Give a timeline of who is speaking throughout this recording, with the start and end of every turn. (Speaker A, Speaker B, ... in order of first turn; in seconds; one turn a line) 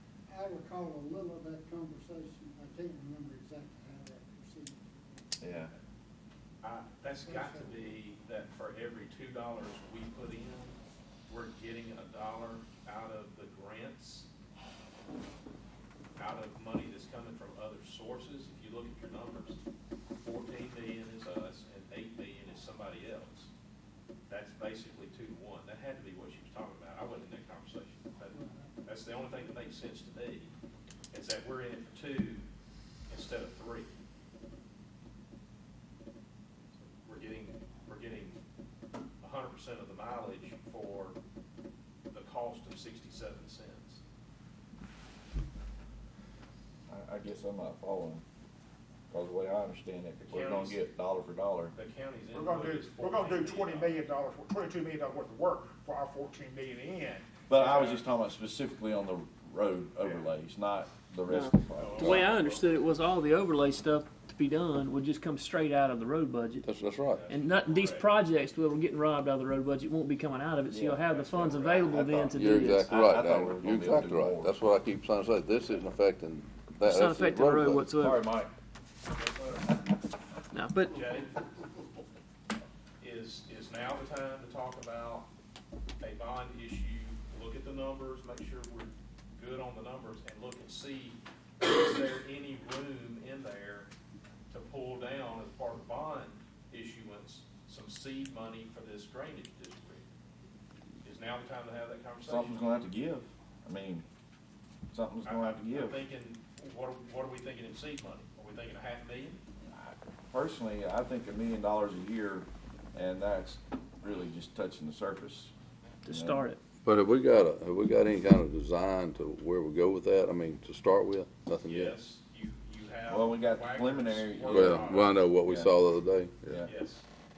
Speaker A: 0.3-5.7
Speaker B: 5.4-5.7
Speaker C: 6.6-10.8
Speaker A: 7.2-8.0
Speaker C: 11.3-14.3
Speaker C: 16.2-19.6
Speaker C: 20.2-23.5
Speaker C: 24.3-30.5
Speaker A: 28.3-29.0
Speaker C: 31.1-32.5
Speaker C: 33.1-33.9
Speaker C: 36.7-38.4
Speaker C: 39.2-41.2
Speaker C: 42.1-44.0
Speaker B: 46.9-48.2
Speaker B: 49.1-51.7
Speaker C: 50.2-50.8
Speaker C: 51.7-54.0
Speaker D: 52.3-57.9
Speaker B: 57.5-62.3
Speaker C: 57.6-58.0
Speaker C: 60.0-60.3
Speaker E: 61.3-66.7
Speaker C: 61.8-62.9
Speaker F: 66.6-67.2
Speaker C: 67.1-68.1
Speaker E: 67.3-72.9
Speaker B: 70.7-74.5
Speaker C: 71.2-71.7
Speaker F: 72.3-77.9
Speaker E: 76.8-78.2
Speaker B: 78.0-78.5
Speaker C: 79.1-79.8
Speaker E: 80.5-81.0
Speaker C: 80.9-81.5
Speaker C: 83.0-85.3
Speaker C: 86.0-93.9
Speaker C: 94.5-100.0
Speaker C: 101.0-102.9
Speaker B: 102.2-104.0
Speaker B: 104.9-106.0
Speaker C: 105.2-109.4
Speaker B: 109.7-115.5
Speaker E: 116.0-116.6
Speaker B: 116.1-116.5
Speaker F: 116.8-122.0
Speaker C: 121.7-125.3
Speaker B: 123.1-124.9
Speaker F: 124.5-126.7
Speaker B: 125.4-125.7
Speaker C: 126.6-127.1